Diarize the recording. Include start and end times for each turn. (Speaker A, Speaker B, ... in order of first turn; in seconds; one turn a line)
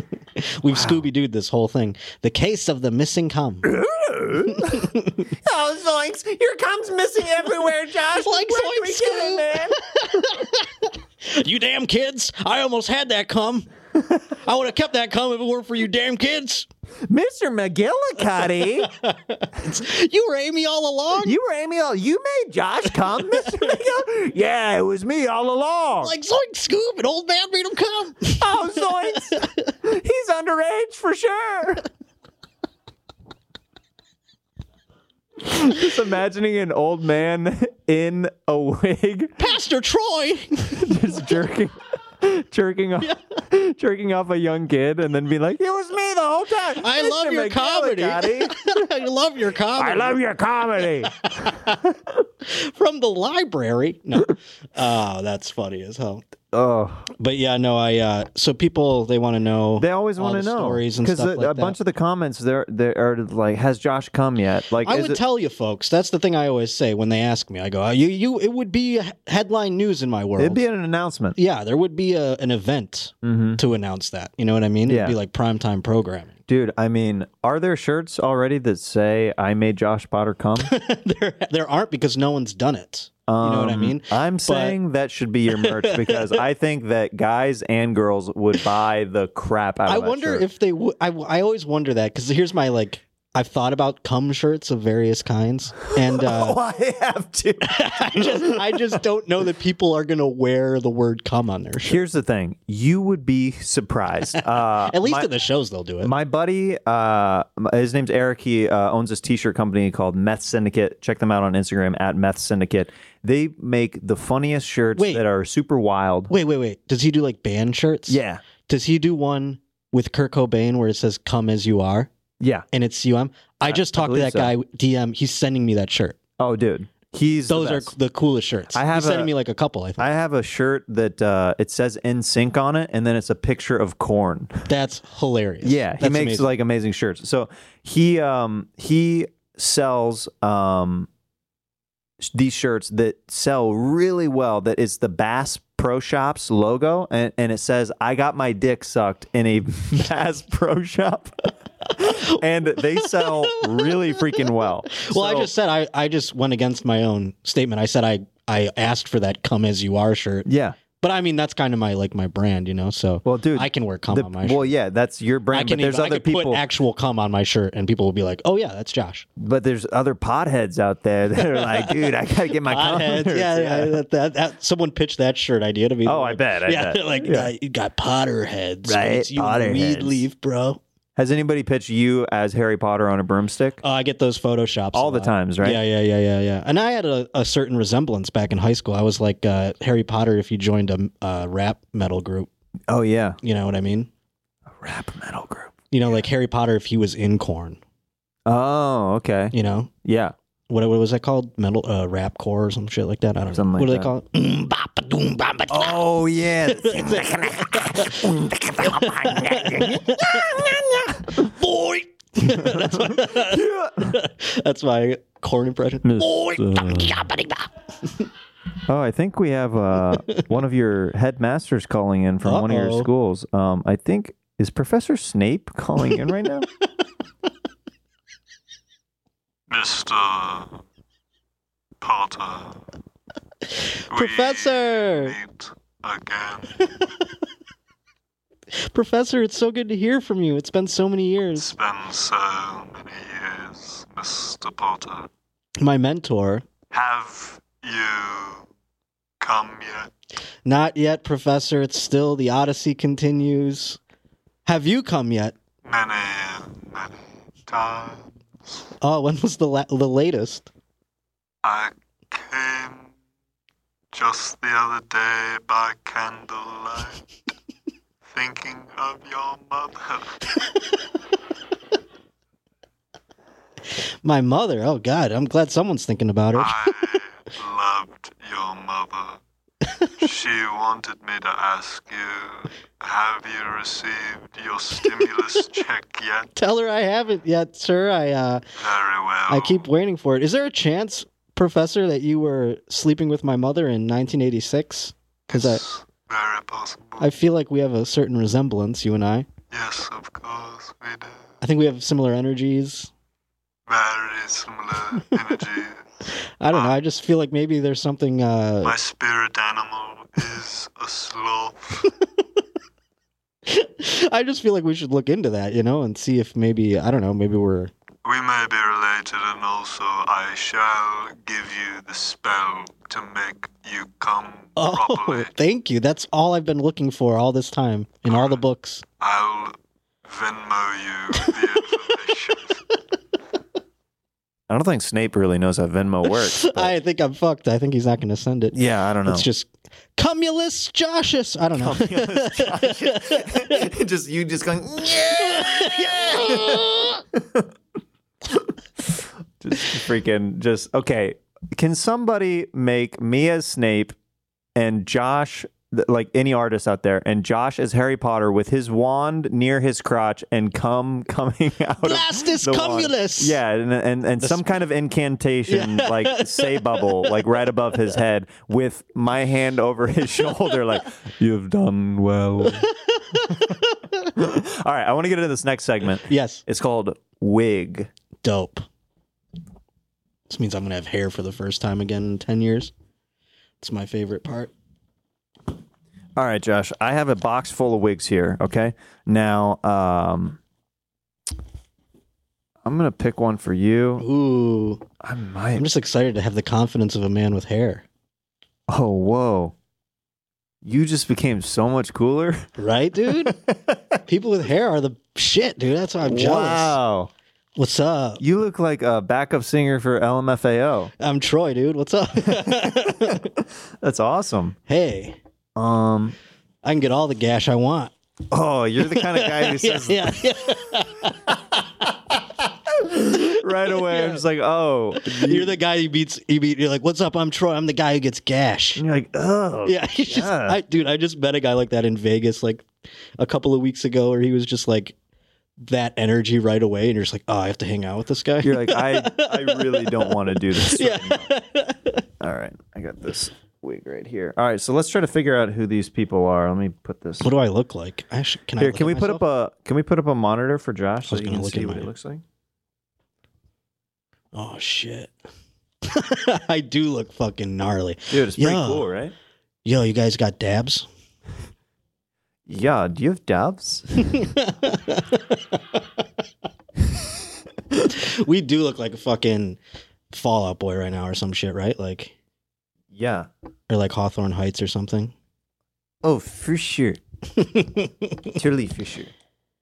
Speaker A: 0.3-3.7
Speaker B: 0.7-1.0
Speaker B: 3.6-4.9
Speaker A: 4.5-5.3
Speaker B: 5.4-9.8
Speaker A: 8.1-16.7
Speaker B: 17.1-18.9
Speaker A: 18.3-21.4
Speaker B: 21.2-26.1
Speaker A: 23.1-23.8
Speaker A: 26.0-29.7
Speaker B: 28.3-31.9
Speaker B: 35.4-39.4
Speaker A: 39.4-41.3
Speaker B: 40.7-48.7
Speaker A: 46.7-50.2
Speaker B: 49.8-51.8
Speaker A: 51.0-51.8
Speaker A: 52.4-56.2
Speaker B: 56.5-57.1
Speaker A: 57.1-61.8
Speaker B: 59.8-65.2
Speaker A: 64.8-70.6
Speaker B: 70.4-71.4
Speaker A: 71.3-76.4
Speaker B: 73.2-73.6
Speaker B: 74.8-75.2
Speaker B: 76.5-80.7
Speaker A: 80.6-84.8
Speaker B: 83.3-90.4
Speaker A: 85.5-86.4
Speaker A: 89.8-96.6
Speaker B: 95.9-98.5
Speaker A: 97.7-102.0
Speaker B: 101.8-105.3
Speaker A: 104.5-106.1
Speaker B: 106.0-116.3
Speaker A: 115.0-115.2
Speaker A: 116.3-122.1
Speaker B: 118.1-118.4
Speaker B: 122.4-122.6
Speaker A: 122.7-126.2
Speaker B: 123.6-124.5
Speaker B: 126.4-127.9
Speaker A: 127.5-130.1
Speaker B: 128.7-129.3
Speaker B: 130.0-134.6
Speaker A: 134.7-136.4
Speaker B: 135.6-141.1
Speaker B: 142.2-155.5
Speaker A: 152.9-160.5
Speaker B: 160.4-160.8
Speaker A: 161.0-164.7
Speaker B: 163.2-166.6
Speaker A: 165.5-169.2
Speaker B: 169.4-174.0
Speaker A: 171.4-180.8
Speaker B: 176.0-177.5
Speaker B: 178.8-180.2
Speaker B: 181.2-183.8
Speaker A: 183.8-192.5
Speaker B: 184.9-185.8
Speaker B: 192.9-193.4
Speaker A: 193.4-194.1
Speaker B: 194.8-196.2
Speaker A: 195.9-197.8
Speaker B: 198.5-199.5
Speaker A: 199.5-199.9
Speaker B: 200.0-200.3
Speaker A: 200.7-206.1
Speaker B: 203.5-204.1
Speaker B: 205.7-211.5
Speaker A: 206.6-218.3
Speaker B: 212.4-214.2
Speaker B: 216.0-217.2
Speaker B: 218.8-226.7
Speaker A: 222.4-223.1
Speaker C: 229.7-230.8
Speaker C: 232.0-232.8
Speaker C: 234.1-236.9
Speaker A: 234.1-235.3
Speaker A: 238.8-241.7
Speaker C: 241.6-245.3
Speaker A: 245.8-246.7
Speaker C: 246.9-248.7
Speaker C: 249.4-250.1
Speaker A: 250.6-254.0
Speaker A: 254.6-255.6
Speaker C: 255.8-258.8
Speaker A: 259.0-260.7
Speaker C: 261.6-263.1
Speaker C: 264.1-267.2
Speaker C: 268.3-270.3
Speaker A: 274.2-276.9
Speaker C: 276.6-279.4
Speaker C: 280.2-286.5
Speaker A: 286.6-288.6
Speaker C: 288.8-289.8
Speaker A: 289.5-295.8
Speaker C: 295.5-297.3
Speaker A: 297.2-299.5
Speaker C: 299.7-301.5
Speaker A: 301.6-303.1
Speaker C: 303.9-306.0
Speaker A: 306.6-308.9
Speaker C: 308.8-312.1
Speaker A: 313.6-317.9
Speaker C: 318.2-325.5
Speaker A: 324.8-329.0
Speaker C: 328.3-328.6
Speaker C: 329.2-332.8
Speaker A: 331.3-331.7
Speaker B: 334.7-336.9
Speaker A: 336.2-343.9
Speaker B: 338.7-339.5
Speaker B: 341.7-346.9
Speaker A: 345.4-347.2
Speaker B: 349.6-354.1
Speaker B: 354.7-372.9
Speaker A: 362.0-363.6
Speaker A: 364.4-364.7
Speaker A: 365.7-367.5
Speaker A: 372.6-374.2
Speaker B: 374.3-378.1
Speaker A: 376.2-376.6
Speaker A: 378.4-378.9
Speaker A: 380.5-382.9
Speaker A: 383.8-384.7
Speaker B: 386.4-390.6
Speaker B: 392.8-394.2
Speaker A: 394.2-395.0
Speaker B: 395.2-395.9
Speaker A: 395.7-398.0
Speaker B: 398.9-399.7
Speaker B: 400.8-402.7
Speaker A: 402.8-403.6
Speaker A: 404.2-407.0
Speaker B: 406.2-407.3
Speaker A: 407.8-408.4
Speaker B: 408.4-411.1
Speaker A: 411.2-413.5
Speaker B: 412.5-413.4
Speaker B: 414.0-414.8
Speaker A: 414.9-415.4
Speaker B: 415.8-416.4
Speaker A: 416.8-418.1
Speaker B: 418.5-420.7
Speaker A: 419.0-422.1
Speaker B: 422.9-425.7
Speaker A: 423.1-424.4
Speaker A: 425.1-429.0
Speaker B: 428.9-430.8
Speaker A: 429.8-435.1
Speaker A: 435.8-442.2
Speaker B: 438.6-441.5
Speaker B: 442.4-447.5
Speaker A: 447.4-449.4
Speaker B: 448.8-452.4
Speaker A: 451.2-452.1
Speaker A: 454.5-455.3
Speaker A: 456.0-459.1
Speaker B: 458.3-459.3
Speaker A: 459.8-461.1
Speaker B: 462.7-464.4
Speaker A: 464.3-466.0
Speaker A: 467.9-469.8
Speaker A: 470.3-472.3
Speaker B: 473.1-473.5
Speaker A: 473.9-475.3
Speaker B: 476.2-477.2
Speaker A: 477.6-478.5
Speaker B: 478.5-479.3